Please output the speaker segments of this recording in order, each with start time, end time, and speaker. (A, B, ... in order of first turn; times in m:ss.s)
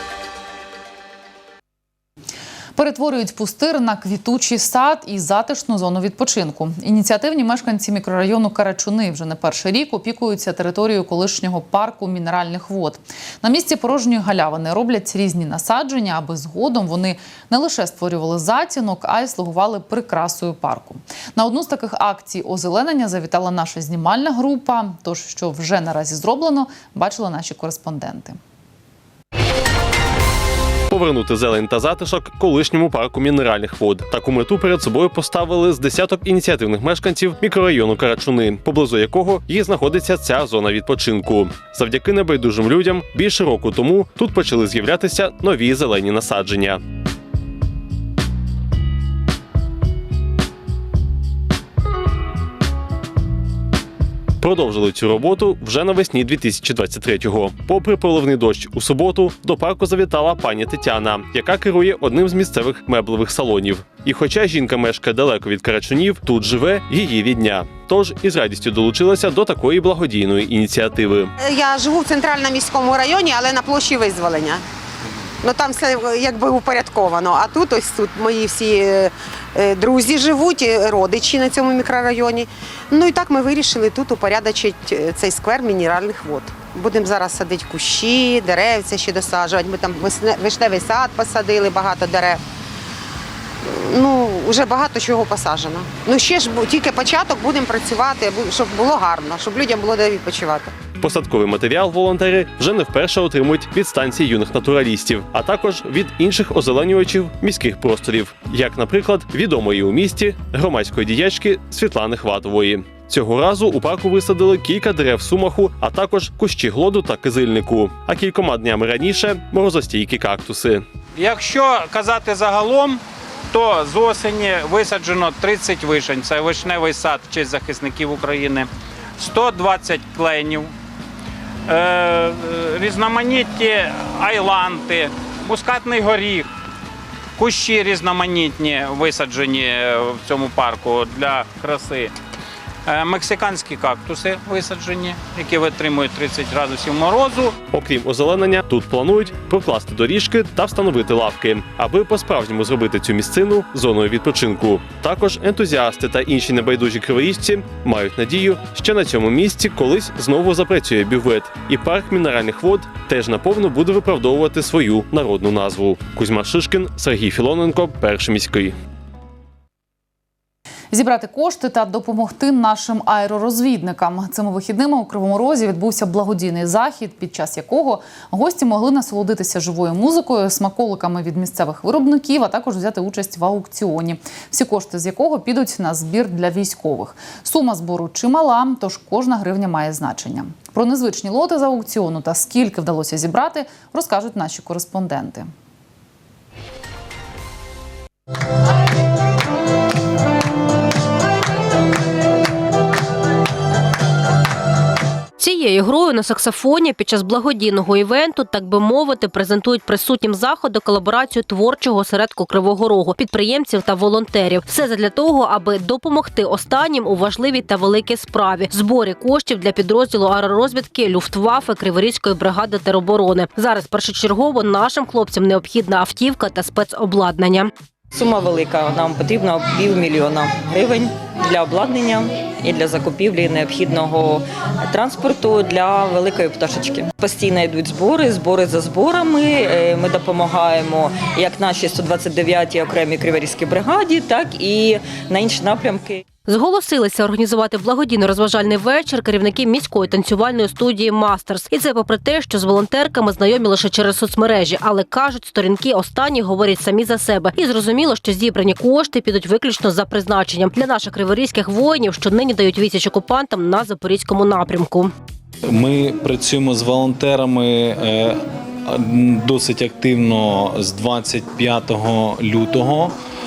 0:02.8-0:28.4 A
0:30.9-0:46.8 B
0:54.4-1:11.3 B
1:11.4-1:14.6 C
1:15.4-1:32.4 C
1:33.6-1:40.7 C
1:41.0-2:00.8 B
2:01.2-2:10.7 D
2:11.7-2:16.5 D
2:17.4-2:22.1 D
2:22.8-2:27.6 D
2:27.7-2:48.7 B
2:50.9-3:15.5 A
3:25.4-3:47.7 E
3:48.1-4:06.2 F
4:06.4-4:25.1 E
4:25.6-4:33.1 G